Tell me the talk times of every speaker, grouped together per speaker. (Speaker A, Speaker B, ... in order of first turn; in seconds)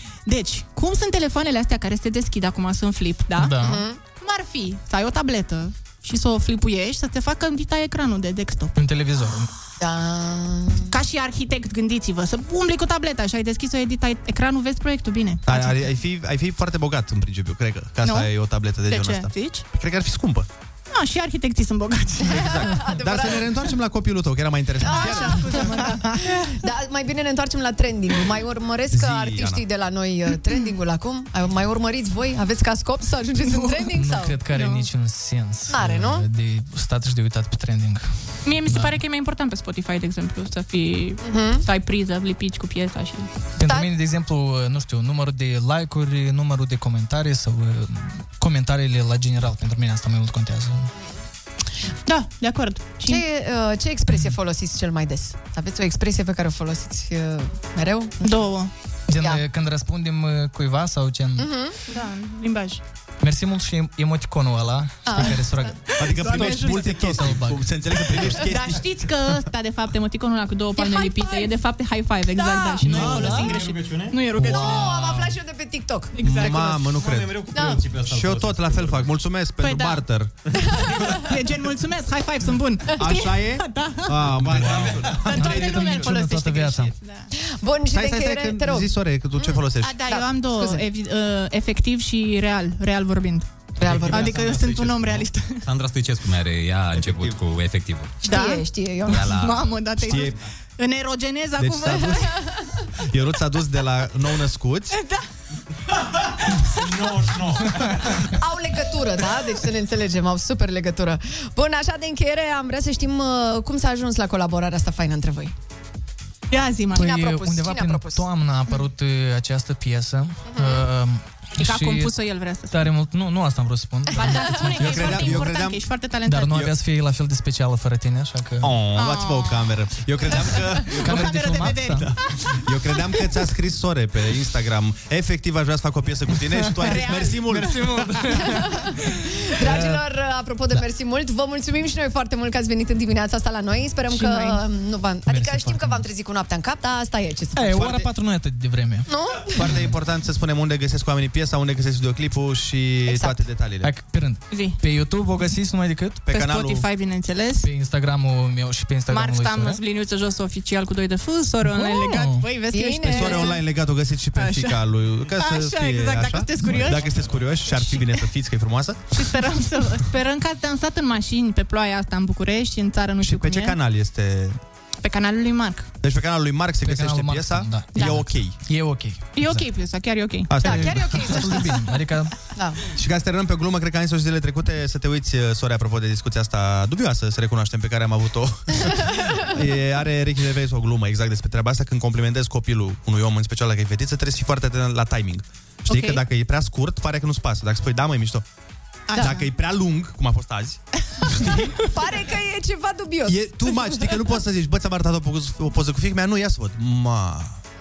Speaker A: 0.3-3.6, 4.2-8.7, 10.9-15.7, 18.0-18.3, 18.9-19.6, 20.9-22.6, 24.8-26.1, 33.5-33.8, 34.5-34.9, 38.5-43.3, 52.1-53.2, 58.2-58.7, 61.9-62.8, 66.3-66.8, 68.4-75.1, 76.2-76.8, 79.6-80.0, 81.2-84.2, 85.3-87.3, 89.8-93.5, 94.0-95.6, 98.2-102.3, 116.5-117.0, 121.6-122.9, 124.1-126.6, 128.9-129.7, 131.0-132.1, 136.9-137.4, 144.1-144.6, 154.5-154.8, 156.3-157.7, 159.1-163.6, 164.3-164.8, 165.3-167.1, 167.7-168.1, 169.1-173.8, 175.0-175.9, 179.3-180.7, 199.1-199.5
Speaker B: 3.4-3.8, 8.8-9.5, 33.9-38.1, 38.7-39.0, 43.6-50.9, 59.1-61.5, 63.2-67.7, 72.8-73.4, 85.3-86.9, 117.0-122.2, 122.7-125.5, 126.2-128.8, 131.0-132.1, 136.8-138.6, 139.6-140.0, 145.3-146.1, 147.6-149.1, 149.6-149.9, 153.8-156.3, 157.6-159.8, 161.7-162.5, 176.8-179.7, 180.6-182.3
Speaker C: 3.6-4.0, 9.8-10.9, 22.2-23.5, 24.8-34.4, 35.7-36.2, 41.2-41.6, 43.6-43.9, 53.0-58.2, 61.4-61.8, 65.1-65.5, 70.8-71.5, 72.3-73.5, 74.4-76.1, 77.5-77.8, 80.7-81.1, 87.4-90.8, 93.8-94.3, 98.2-99.3, 102.0-102.5, 108.4-115.5, 116.9-118.2, 120.5-120.8, 124.2-124.7, 138.3-147.8, 149.1-149.8, 153.1-153.4, 162.7-163.6, 180.6-181.8, 188.9-189.3, 201.4-204.2
Speaker D: 15.5-20.5, 22.3-25.8, 28.9-29.6, 66.0-69.2, 72.9-73.3, 76.2-77.4, 78.0-80.3, 83.0-86.1, 87.9-90.1, 96.9-97.4, 100.0-100.4, 101.6-102.3, 103.1-105.0, 124.7-125.8, 128.6-138.1, 147.7-148.1, 149.5-153.9, 156.3-156.8, 163.0-169.0, 173.2-174.6, 176.0-178.6, 180.5-181.1, 183.0-198.4, 199.2-200.8, 203.3-207.6
Speaker E: 73.0-74.2, 77.0-79.1, 84.3-85.3, 93.8-98.2, 99.1-99.6, 106.6-107.8